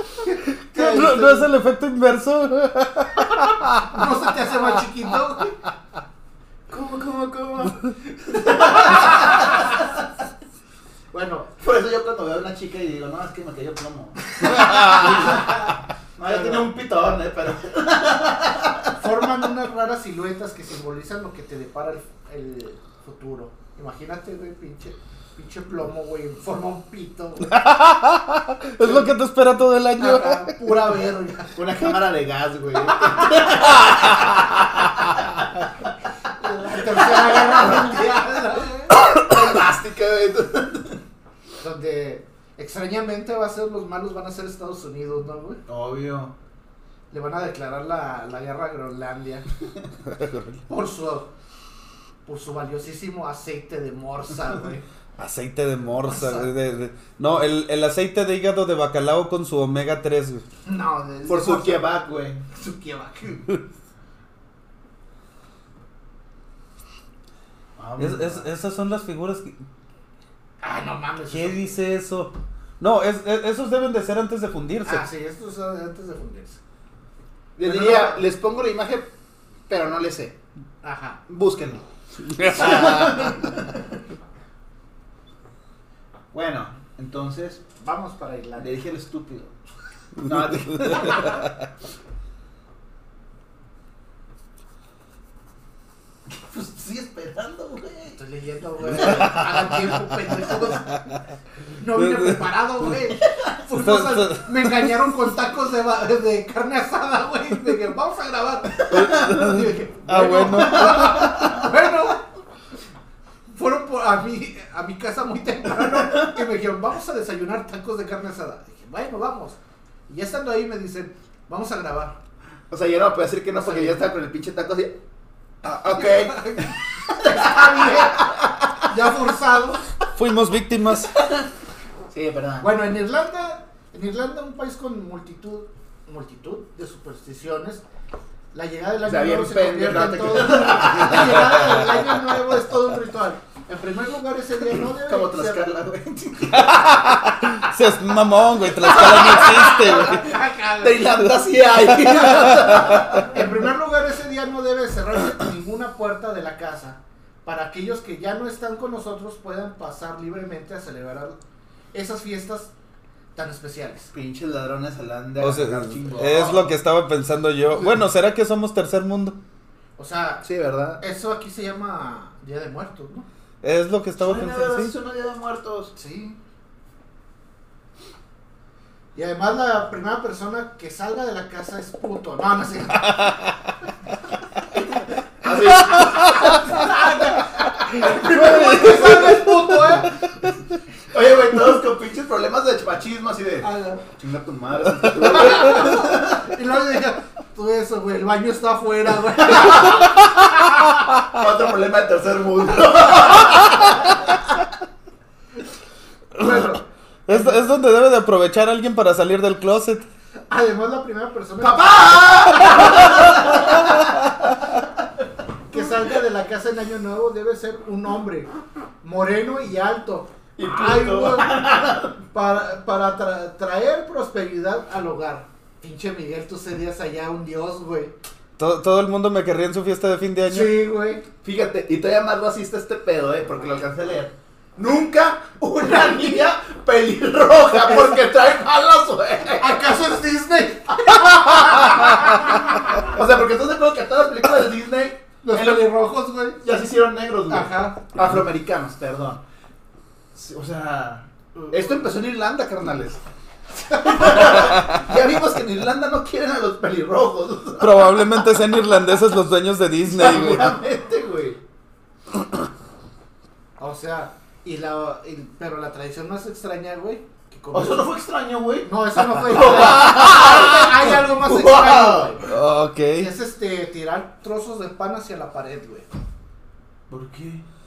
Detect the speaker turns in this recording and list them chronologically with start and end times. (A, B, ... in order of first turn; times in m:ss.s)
0:00.2-0:01.5 A
0:00.7-0:03.9 B
0:03.8-0:05.6 A
0:06.7-0:10.1 C
0:11.1-0:11.5 A
0:11.6-0:19.0 C
0:14.6-0:15.5 A
0:16.2-0:16.7 A
0:19.0-0:27.6 A
0:27.5-0:30.6 B
0:28.8-0:29.1 A
0:30.0-0:31.7 A
0:31.5-0:35.5 C
0:36.4-0:39.0 A
0:36.7-0:38.2 C
0:38.9-0:41.0 C
0:41.6-0:45.6 A
0:45.7-0:46.3 C
0:47.1-0:49.4 A
0:50.1-0:50.6 B
0:50.7-0:51.3 A
0:52.2-0:54.8 A
0:55.2-1:00.4 B
0:56.0-0:56.5 A
1:00.6-1:01.9 A
1:01.2-1:02.4 C
1:02.5-1:03.5 A
1:07.8-1:08.4 C
1:08.0-1:09.6 B
1:10.6-1:11.7 A
1:11.3-1:15.0 B
1:14.8-1:16.6 A
1:17.6-1:19.1 C
1:17.6-1:18.2 A
1:19.7-1:20.4 C
1:20.8-1:21.2 A
1:21.3-1:23.9 C
1:22.3-1:23.2 B
1:26.3-1:27.6 C
1:27.8-1:28.8 A
1:28.6-1:29.5 C
1:30.2-1:31.4 C
1:30.6-1:31.1 B
1:36.2-1:38.2 C
1:38.2-1:41.0 A
1:39.0-1:39.3 C
1:41.8-1:52.2 A
1:43.8-1:44.9 B
1:48.8-1:49.7 C
1:48.9-1:51.4 B
1:50.5-1:51.7 C
1:53.5-2:02.2 A
1:55.8-1:56.2 C
2:02.7-2:05.0 C
2:03.6-2:04.0 A
2:05.6-2:08.8 C
2:05.9-2:09.8 A
2:10.1-2:11.2 B
2:11.1-2:11.5 C
2:12.1-2:12.7 C
2:12.6-2:17.8 A
2:18.5-2:25.7 A
2:19.0-2:21.8 C
2:25.0-2:27.2 C
2:26.5-2:30.3 B
2:28.8-2:31.2 A
2:28.8-2:30.1 C
2:30.8-2:33.4 C
2:32.0-2:33.2 B
2:33.3-2:41.4 A
2:41.9-2:42.7 A
2:43.3-2:44.1 A
2:44.1-2:46.7 C
2:45.4-2:49.4 B
2:50.0-2:50.4 A
2:50.4-2:51.0 C
2:51.0-2:53.3 A
2:53.6-2:54.9 B
2:54.2-2:55.9 C
2:55.9-2:56.4 A
2:59.1-3:03.3 A
3:05.4-3:06.8 C
3:06.3-3:10.1 A
3:08.0-3:09.4 B
3:08.0-3:09.3 C
3:11.1-3:16.5 C
3:13.6-3:14.0 A
3:15.1-3:20.8 A
3:21.3-3:24.3 C
3:26.4-3:27.7 A
3:27.3-3:30.0 B
3:30.5-3:33.2 A
3:31.6-3:35.2 C
3:32.7-3:34.2 B
3:35.7-3:38.5 A
3:39.0-3:41.6 A
3:40.6-3:42.2 C
3:42.3-3:48.1 A
3:48.6-3:50.8 B
3:50.4-3:51.2 A
3:51.4-3:59.9 C
3:59.6-4:03.0 A
4:01.5-4:02.3 C
4:02.9-4:05.9 C
4:05.4-4:06.6 A
4:06.6-4:09.4 C
4:07.5-4:08.0 A
4:10.3-4:13.2 C
4:11.5-4:12.1 A
4:13.8-4:14.4 A
4:13.9-4:18.5 C
4:17.8-4:20.8 B
4:20.0-4:21.6 C
4:23.8-4:28.1 A
4:27.7-4:32.5 C
4:28.8-4:32.4 A
4:32.4-4:33.3 B
4:33.2-4:36.1 A
4:37.1-4:37.6 C